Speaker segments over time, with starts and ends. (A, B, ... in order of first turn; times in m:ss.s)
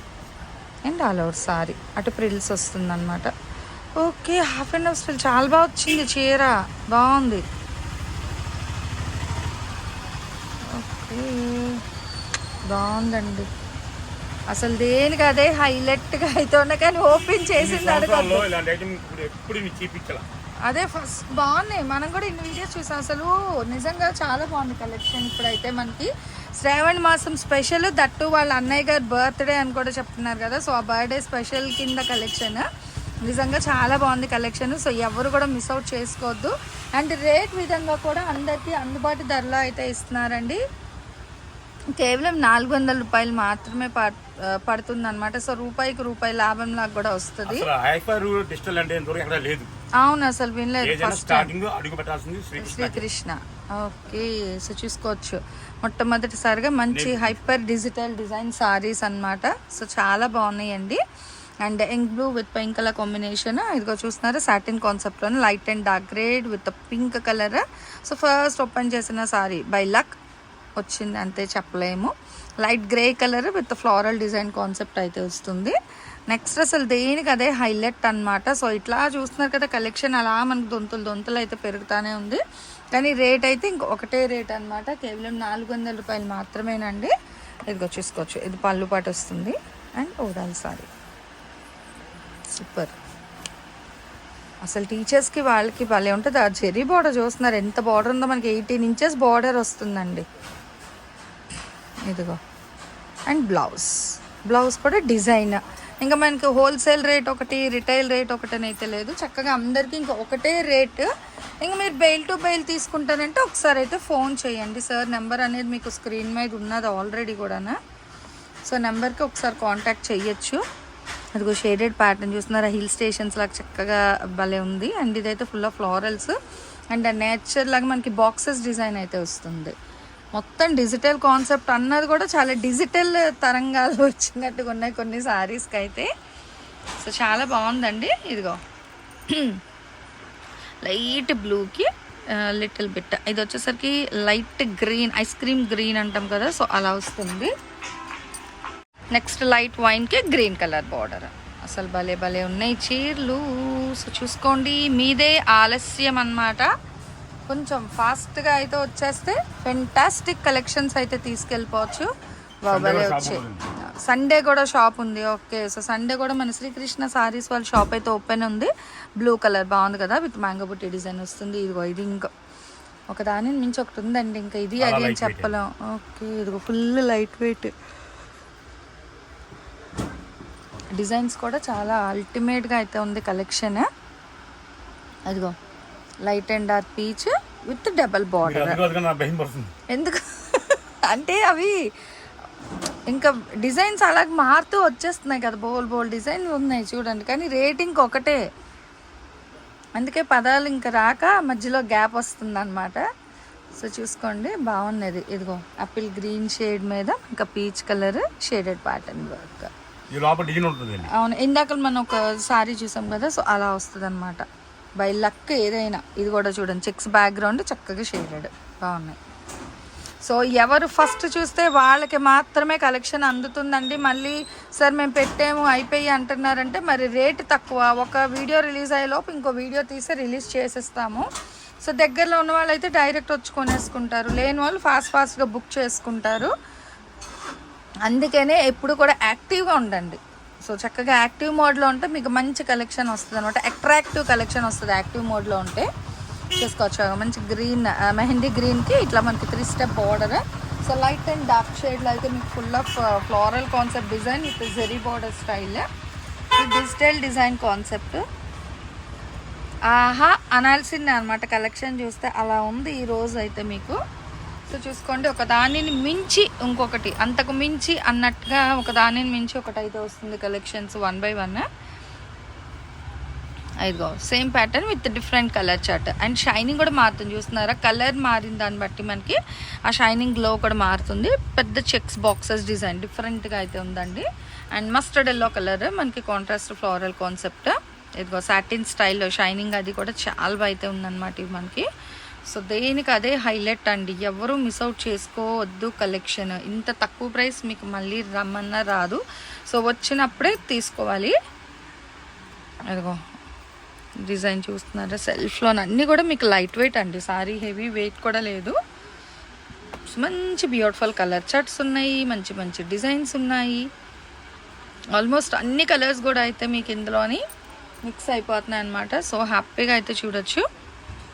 0:00.8-0:03.3 A
0:04.0-0:07.4 A
0:10.7-0:11.8 A
0:12.7-0:13.5 A
0:14.5-0:18.5 A
0:17.6-0:20.2 B
0:20.6-0:32.6 A
0:33.2-0:40.6 A
0:41.9-0:47.7 A
0:47.5-0:49.7 B
0:50.0-0:51.5 A
0:50.8-0:53.0 B
0:52.6-1:01.0 A
0:56.9-0:57.4 B
1:01.6-1:10.2 A
1:10.8-1:15.8 A
1:16.3-1:22.4 A
1:22.9-1:27.1 A
1:27.7-1:30.9 A
1:32.5-1:32.9 A
1:34.6-1:40.2 A
1:42.1-1:42.4 A
1:43.3-1:51.1 A
1:51.6-1:57.8 A
1:58.7-2:00.6 A
2:01.4-2:06.4 A
2:06.9-2:09.7 A
2:10.4-2:16.1 A
2:17.0-2:18.6 A
2:19.3-2:19.6 A
2:20.8-2:27.5 A
2:29.1-2:36.7 A
2:37.5-2:42.1 A
2:42.6-2:52.3 A
2:42.7-2:43.7 B
2:53.1-2:57.7 A
2:54.8-2:55.5 B
3:00.9-3:03.8 A
3:05.3-3:05.5 A
3:06.2-3:08.8 A
3:08.4-3:09.7 B
3:09.9-3:11.8 A
3:13.1-3:18.4 A
3:20.0-3:23.0 A
3:23.8-3:29.7 A
3:30.1-3:31.1 B
3:31.1-3:34.4 A
3:35.0-3:39.2 A
3:40.2-3:51.2 A
3:51.8-3:56.5 A
3:58.0-4:05.9 A
4:06.6-4:15.8 A
4:16.6-4:18.2 A
4:19.9-4:24.0 A
4:24.7-4:31.6 A
4:33.8-4:51.8 A
4:52.5-5:01.3 A
5:02.9-5:03.2 A
5:04.2-5:08.8 A
5:10.1-5:13.9 A
5:15.1-5:17.4 A
5:18.0-5:20.6 A